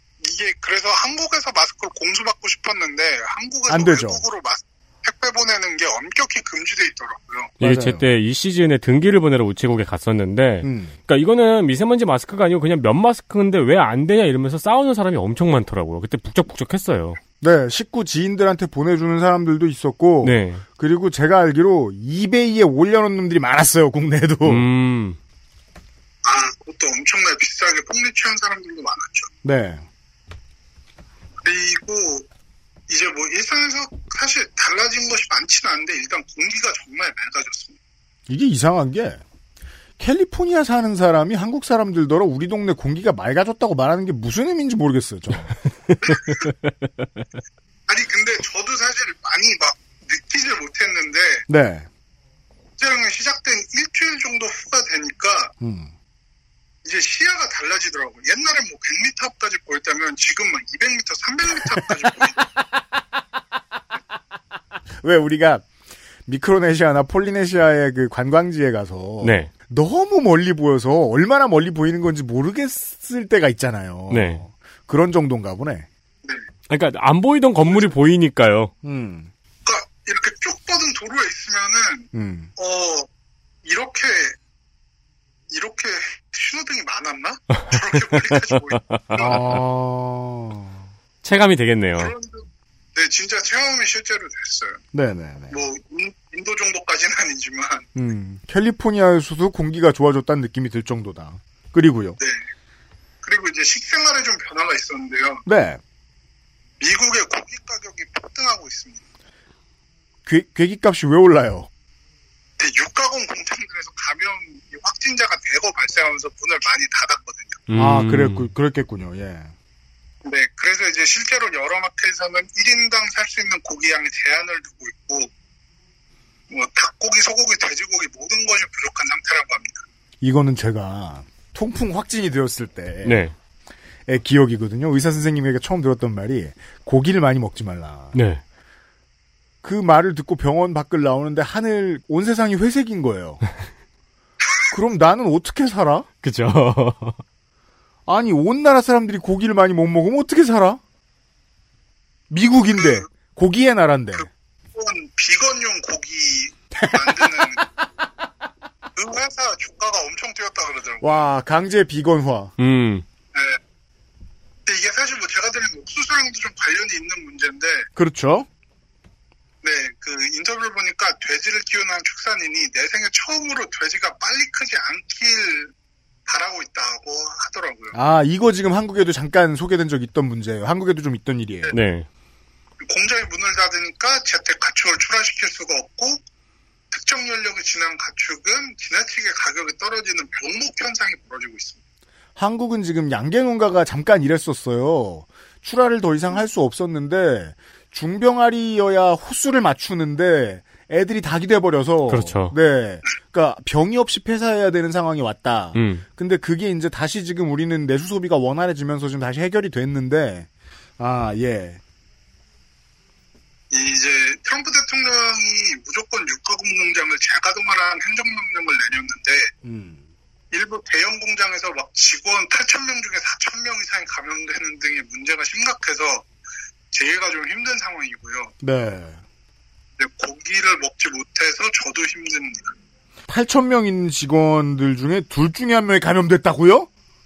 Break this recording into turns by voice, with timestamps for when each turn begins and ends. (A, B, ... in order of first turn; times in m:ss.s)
0:00.2-0:07.5 A
0:03.7-0:04.3 B
0:07.6-0:17.2 C
0:07.6-0:08.1 B
0:10.6-0:11.0 B
0:17.4-0:24.7 B
0:20.2-0:20.6 C
0:24.4-0:25.2 C
0:26.2-0:29.3 A
0:29.4-0:29.9 B
0:31.4-0:32.3 A
0:32.9-0:37.8 A
0:38.3-0:39.2 B
0:40.0-0:45.6 B
0:46.0-0:46.4 A
0:47.9-0:51.5 A
0:51.5-0:51.9 B
0:52.8-0:55.5 A
0:55.6-0:55.9 B
0:56.8-1:02.4 A
1:05.0-1:05.7 B
1:06.3-1:15.9 B
1:09.2-1:09.5 C
1:14.1-1:14.4 C
1:16.7-1:18.7 C
1:17.6-1:18.0 A
1:18.8-1:19.3 B
1:19.7-1:23.1 A
1:22.1-1:22.5 B
1:23.6-1:24.4 A
1:25.5-1:29.4 A
1:28.2-1:29.5 C
1:29.2-1:30.9 B
1:31.2-1:32.1 C
1:32.0-1:34.8 A
1:34.9-1:35.6 B
1:35.5-1:37.9 A
1:38.0-1:42.2 B
1:42.2-1:42.5 A
1:43.2-1:45.4 A
1:45.4-1:45.8 B
1:46.8-1:49.0 A
1:50.3-1:51.7 B
1:52.6-1:57.6 A
1:57.7-1:58.5 C
1:57.8-1:59.5 B
2:00.2-2:05.3 A
2:06.5-2:09.8 A
2:10.2-2:13.3 B
2:13.0-2:13.3 C
2:14.1-2:18.2 B
2:18.1-2:18.4 C
2:19.6-2:23.4 B
2:24.7-2:26.1 B
2:26.2-2:27.2 C
2:28.1-2:30.8 B
2:32.3-2:34.3 B
2:32.8-2:33.1 A
2:34.1-2:37.7 A
2:36.8-2:37.5 B
2:39.0-2:41.2 A
2:41.0-2:42.6 B
2:42.6-2:43.0 C
2:43.3-2:43.6 A
2:44.7-2:47.9 A
2:48.0-2:48.5 B
2:49.6-2:55.7 A
2:56.3-2:58.0 A
2:57.9-3:01.7 B
3:01.7-3:02.1 C
3:02.8-3:06.2 A
3:06.9-3:11.8 A
3:12.4-3:30.5 B
3:22.1-3:22.6 C
3:25.7-3:26.1 C
3:31.0-3:31.8 B
3:33.7-3:39.5 A
3:39.6-3:40.0 B
3:40.5-3:46.3 A
3:46.9-3:48.5 A
3:48.6-3:49.2 B
3:50.0-3:52.7 A
3:53.3-3:56.9 B